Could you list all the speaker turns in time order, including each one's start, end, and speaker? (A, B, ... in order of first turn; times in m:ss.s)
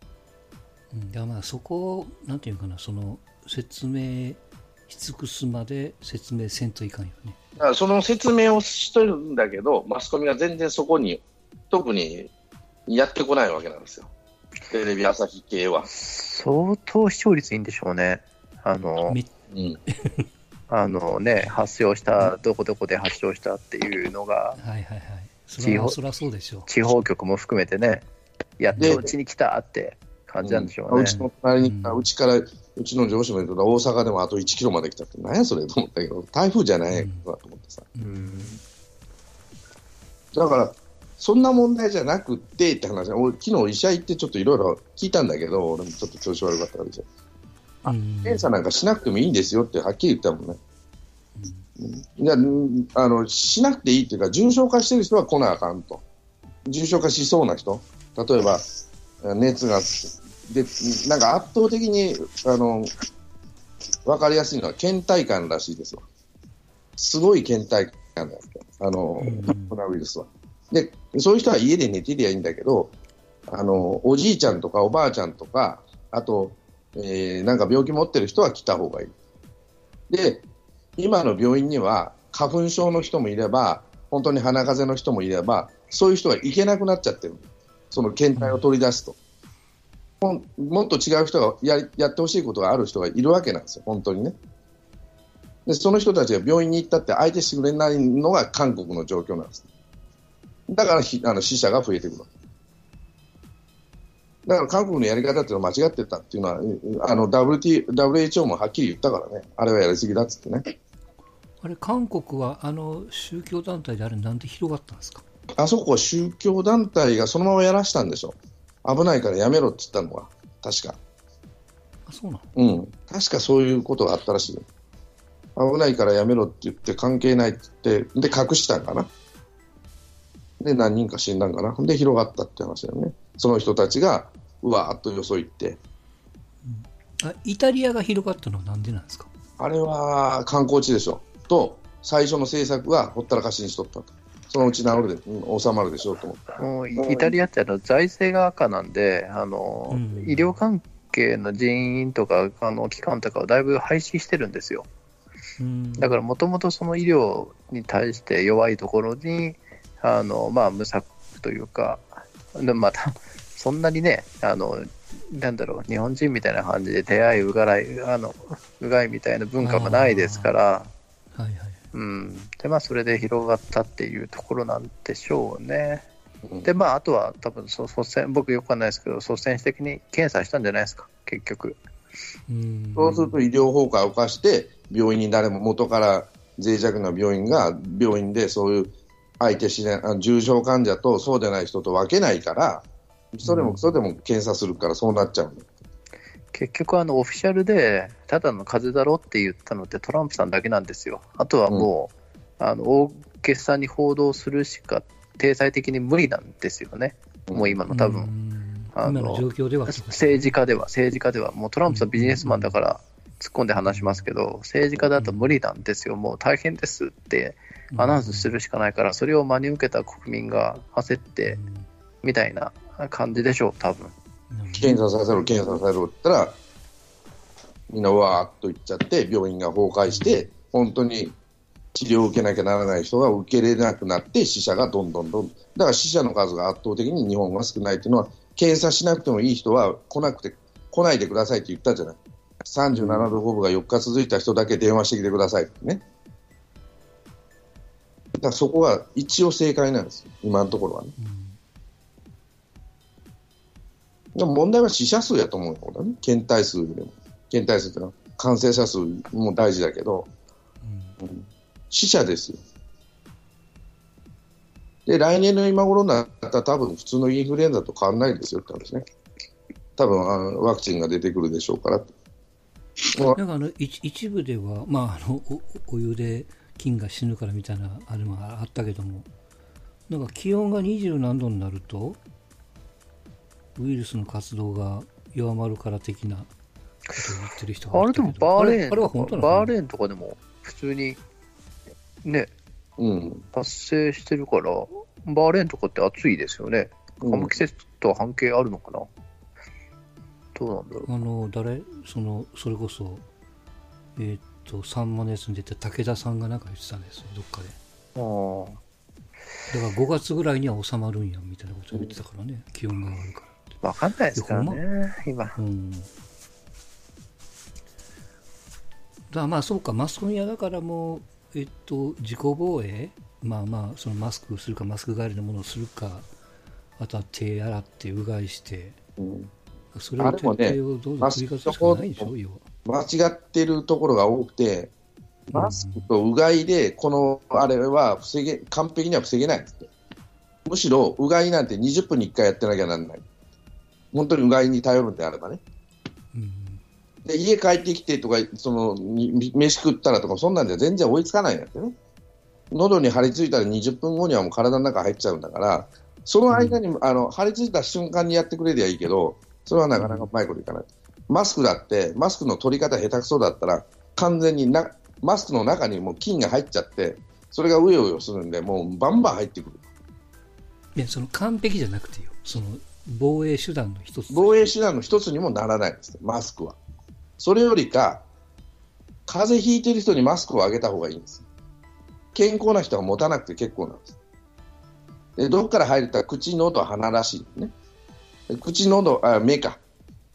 0:00.9-0:07.4 A
0:07.6-0:12.3 B
0:12.9-0:14.1 B
0:14.7-0:15.9 B
0:15.9-0:19.2 C
0:19.0-0:19.3 A
0:19.5-0:19.8 B
0:19.9-0:20.3 A
0:20.7-0:24.6 C
0:24.6-0:26.7 A
0:25.6-0:26.0 C
0:26.7-0:28.0 C
0:28.6-0:31.2 C
0:28.7-0:29.0 A
0:30.4-0:37.9 B
0:31.6-0:32.1 A
0:36.9-0:37.2 A
0:38.0-0:38.5 A
0:38.0-0:38.6 C
0:40.3-0:47.0 B
0:47.8-0:50.6 B
0:47.8-0:48.5 A
0:51.4-0:51.6 A
0:51.8-0:56.0 B
0:56.6-0:58.6 B
0:59.2-1:02.9 B
1:04.0-1:06.0 B
1:07.0-1:12.9 B
1:09.2-1:09.8 A
1:13.5-1:19.1 B
1:20.1-1:20.4 B
1:21.0-1:29.2 B
1:28.4-1:28.6 A
1:30.2-1:34.3 B
1:35.6-1:39.6 B
1:40.7-1:42.3 B
1:44.4-1:50.6 B
1:51.6-1:55.2 A
1:55.6-2:01.0 B
2:02.1-2:02.5 A
2:02.6-2:04.6 B
2:05.6-2:09.1 B
2:10.6-2:15.8 B
2:16.6-2:19.3 A
2:19.6-2:27.4 B
2:26.6-2:34.9 C
2:29.9-2:30.6 A
2:35.6-2:36.2 A
2:36.0-2:50.9 C
2:49.6-2:50.5 A
2:51.3-2:51.8 A
2:51.9-2:56.0 C
2:56.6-3:01.8 C
3:02.5-3:03.4 A
3:03.0-3:15.7 B
3:13.4-3:13.9 A
3:16.5-3:28.3 C
3:27.5-3:27.8 B
3:27.9-3:30.6 A
3:28.9-3:41.6 C
3:31.9-3:32.8 A
3:33.8-3:34.2 A
3:35.1-3:35.6 A
3:37.9-3:38.5 A
3:41.5-3:41.8 A
3:42.2-3:44.1 C
3:44.5-3:45.0 A
3:44.7-3:46.6 B
3:47.9-3:51.3 B
3:50.1-3:50.5 A
3:51.9-4:06.0 B
4:03.0-4:03.3 A
4:08.4-4:11.1 B
4:11.2-4:11.6 A
4:14.3-4:20.3 B
4:20.8-4:21.2 A
4:21.2-4:22.6 B
4:25.0-4:29.0 B
4:30.0-4:32.1 B
4:33.1-4:33.4 B
4:33.3-4:39.3 A
4:40.1-4:42.2 A
4:43.8-4:46.5 A
4:47.1-4:49.7 A
4:47.9-4:51.2 C
4:52.2-4:52.5 C
4:53.0-4:53.4 B
4:53.5-4:59.1 C
4:57.2-4:57.5 B
5:00.6-5:01.1 C
5:01.0-5:03.2 A
5:04.2-5:07.8 A
5:08.2-5:08.8 C
5:09.7-5:13.6 A
5:13.8-5:15.6 C
5:14.4-5:14.8 A
5:15.6-5:16.1 A
5:19.3-5:26.3 A
5:27.0-5:29.0 A
5:29.2-5:29.5 B
5:29.9-5:32.6 A
5:30.2-5:32.3 B
5:32.8-5:34.9 B
5:35.5-5:36.0 A
5:35.5-5:39.9 B
5:40.6-5:43.2 B
5:44.1-5:45.6 B
5:46.3-5:46.8 A
5:47.2-5:51.9 B
5:52.7-6:09.8 B
5:56.5-5:56.8 A
6:00.0-6:00.3 A
6:11.0-6:14.7 A
6:14.3-6:16.8 B
6:17.4-6:18.2 B
6:19.3-6:21.4 B
6:22.3-6:24.1 B
6:25.4-6:27.7 B
6:28.5-6:29.8 B